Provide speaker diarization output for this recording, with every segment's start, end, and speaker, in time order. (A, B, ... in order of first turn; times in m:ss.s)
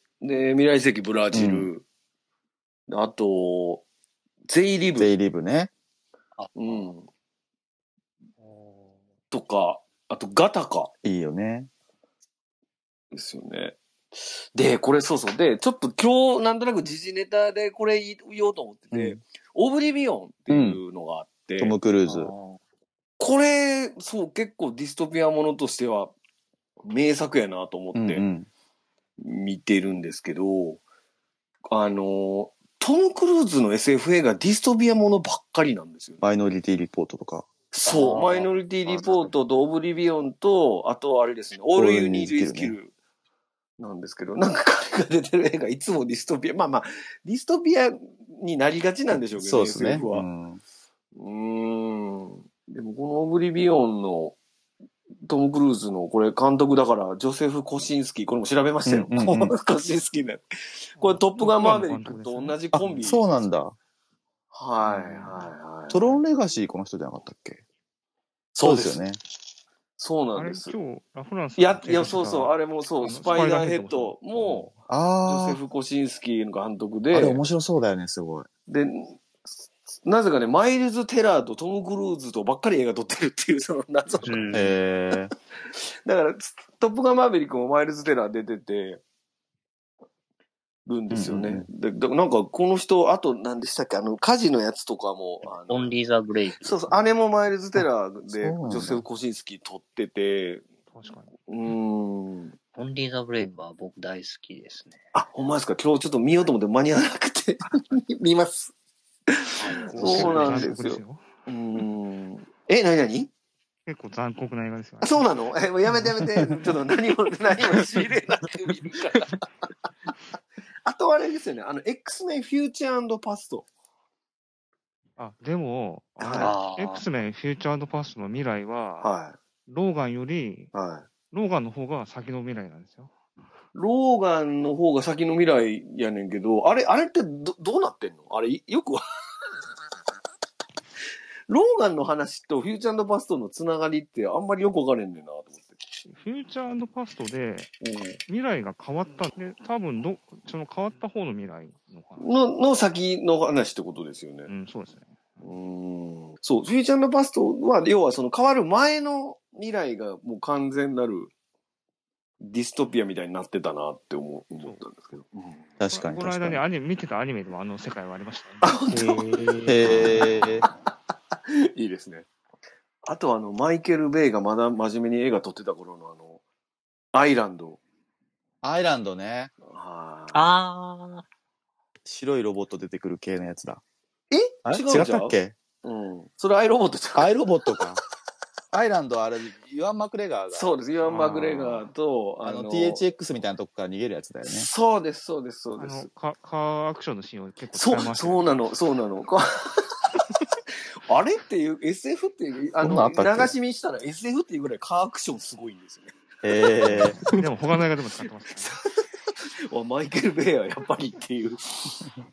0:00.2-0:01.8 A
0:01.3-0:01.7 B
0:02.9-0:03.8 A
0:04.5-0:05.1 A
0:05.0-0:05.7 B
0:06.4-0:06.9 C
0:06.6-0:07.1 A
0:09.3-0:10.9 A
0:11.0-0:11.7 B
0:13.1-0:13.8 A
0:14.5-0:21.7 A
0:18.9-0:19.2 B
0:20.5-0:20.8 B
0:21.6-0:22.3 B
0:22.1-0:22.6 C
0:23.2-0:26.1 A
0:26.8-0:28.2 A
0:27.9-0:28.5 B
0:29.2-0:30.8 A
0:31.7-0:36.2 A
0:36.2-0:37.5 B
0:37.7-0:42.9 A
0:37.8-0:39.3 C
0:41.7-0:42.8 B
0:43.8-0:50.2 A
0:49.3-0:50.6 B
0:51.1-0:54.4 A
0:55.2-1:03.2 A
0:58.8-0:59.5 B
1:01.0-1:02.6 D
1:02.7-1:03.8 B
1:04.5-1:06.2 A
1:05.9-1:07.6 B
1:08.5-1:09.0 A
1:08.6-1:09.2 B
1:10.0-1:10.8 A
1:10.4-1:14.8 D
1:11.6-1:14.7 A
1:14.9-1:15.6 B
1:15.3-1:17.4 A
1:17.1-1:18.5 B
1:18.7-1:19.4 A
1:20.0-1:24.6 A
1:24.2-1:24.7 C
1:24.5-1:25.3 B
1:26.0-1:29.0 A
1:30.9-1:35.9 A
1:31.1-1:31.7 B
1:35.7-1:37.0 C
1:36.6-1:40.6 A
1:38.3-1:39.0 B
1:40.9-1:41.3 D
1:41.5-1:42.6 A
1:42.7-1:45.0 C
1:45.1-1:48.7 A
1:49.3-1:53.3 A
1:49.6-1:50.8 C
1:49.9-1:51.3 D
1:53.8-1:55.3 D
1:55.0-1:59.5 A
1:57.8-1:58.0 C
2:00.8-2:03.6 A
2:05.2-2:09.1 D
2:06.2-2:06.5 B
2:06.2-2:06.6 A
2:06.4-2:07.0 C
2:09.0-2:09.4 A
2:09.7-2:10.7 D
2:10.7-2:11.1 A
2:11.3-2:13.1 D
2:13.7-2:19.0 A
2:21.5-2:26.0 A
2:26.1-2:27.7 D
2:27.8-2:28.2 A
2:28.3-2:32.3 D
2:32.2-2:34.5 A
2:34.5-2:35.5 D
2:35.4-2:41.3 A
2:42.4-2:45.6 A
2:45.8-2:46.6 B
2:45.9-2:50.2 D
2:48.6-2:50.7 A
2:49.7-2:50.2 C
2:49.7-2:50.6 B
2:51.3-2:52.3 A
2:53.0-2:56.4 A
2:57.1-2:57.8 A
2:58.6-2:59.5 B
2:59.6-3:00.4 A
3:00.3-3:01.2 C
3:02.0-3:03.8 B
3:04.3-3:07.8 A
3:04.6-3:05.6 B
3:07.2-3:08.0 B
3:08.7-3:11.4 B
3:10.5-3:13.0 A
3:12.4-3:14.7 B
3:14.5-3:16.1 A
3:15.8-3:18.5 D
3:17.7-3:20.2 A
3:21.1-3:27.4 A
3:22.8-3:23.5 B
3:26.4-3:27.2 B
3:26.9-3:28.8 D
3:28.4-3:32.1 A